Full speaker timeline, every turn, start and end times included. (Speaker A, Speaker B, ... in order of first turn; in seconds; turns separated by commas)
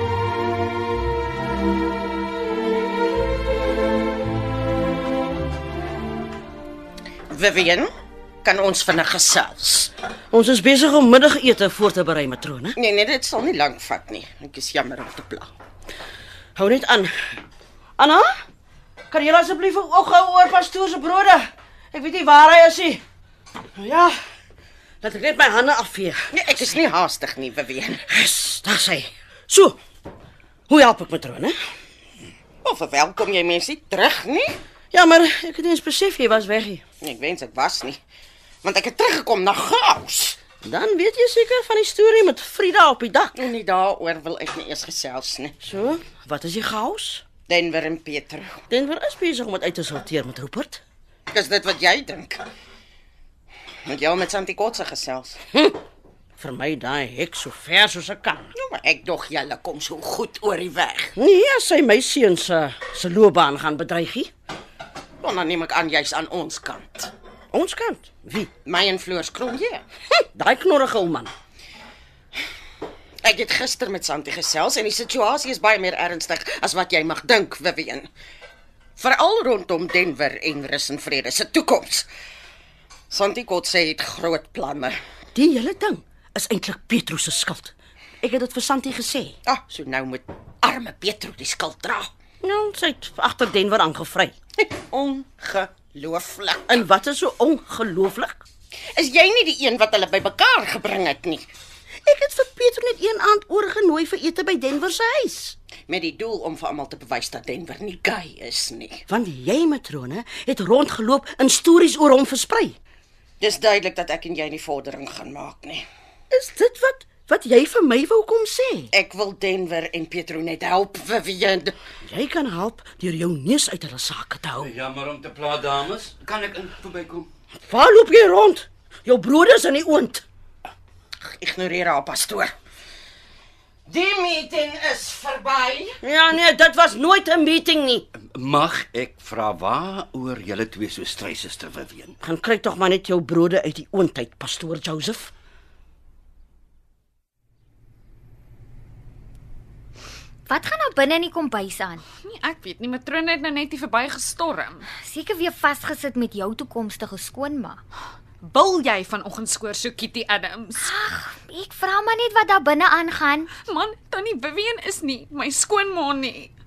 Speaker A: 7.3-7.9, Speaker A: 8.4-9.9, Speaker B: 10.3-12.8, Speaker A: 12.8-15.5, Speaker B: 16.6-17.1, Speaker B: 18.0-18.3, Speaker B: 19.1-23.0, Speaker B: 23.8-24.1, Speaker B: 25.0-26.3, Speaker A: 26.3-28.0, Speaker B: 28.1-29.8, Speaker B: 30.7-31.6, Speaker A: 32.6-34.5, Speaker B: 34.9-36.8, Speaker A: 37.0-38.0, Speaker A: 38.6-40.4, Speaker B: 40.6-43.4, Speaker A: 43.4-45.5, Speaker B: 45.6-47.3, Speaker A: 47.5-48.6, Speaker B: 48.7-50.8, Speaker A: 51.3-52.4, Speaker A: 53.9-55.4, Speaker B: 55.5-55.8, Speaker B: 56.4-58.5, Speaker A: 58.6-61.2, Speaker B: 61.2-64.3, Speaker A: 65.2-67.1, Speaker B: 67.5-68.5, Speaker A: 68.7-69.8, Speaker B: 70.3-71.3, Speaker A: 73.2-78.1, Speaker A: 79.0-82.1, Speaker A: 83.1-85.0, Speaker B: 85.3-89.4, Speaker A: 89.5-92.1, Speaker B: 92.4-94.3, Speaker A: 94.6-96.8, Speaker B: 96.7-98.4, Speaker A: 98.9-101.5, Speaker B: 102.0-105.6, Speaker A: 105.9-109.0, Speaker B: 109.1-112.8, Speaker A: 113.4-115.8, Speaker B: 116.3-118.9, Speaker A: 118.9-121.8, Speaker B: 122.0-124.7, Speaker C: 124.6-127.3, Speaker B: 127.6-130.2, Speaker A: 131.2-132.5, Speaker A: 133.9-136.0, Speaker B: 136.0-138.1, Speaker C: 138.2-142.2, Speaker B: 142.2-145.3, Speaker D: 150.5-152.0, Speaker E: 152.2-154.8, Speaker D: 155.0-157.8, Speaker E: 158.4-161.0, Speaker D: 160.8-163.5, Speaker E: 163.7-166.5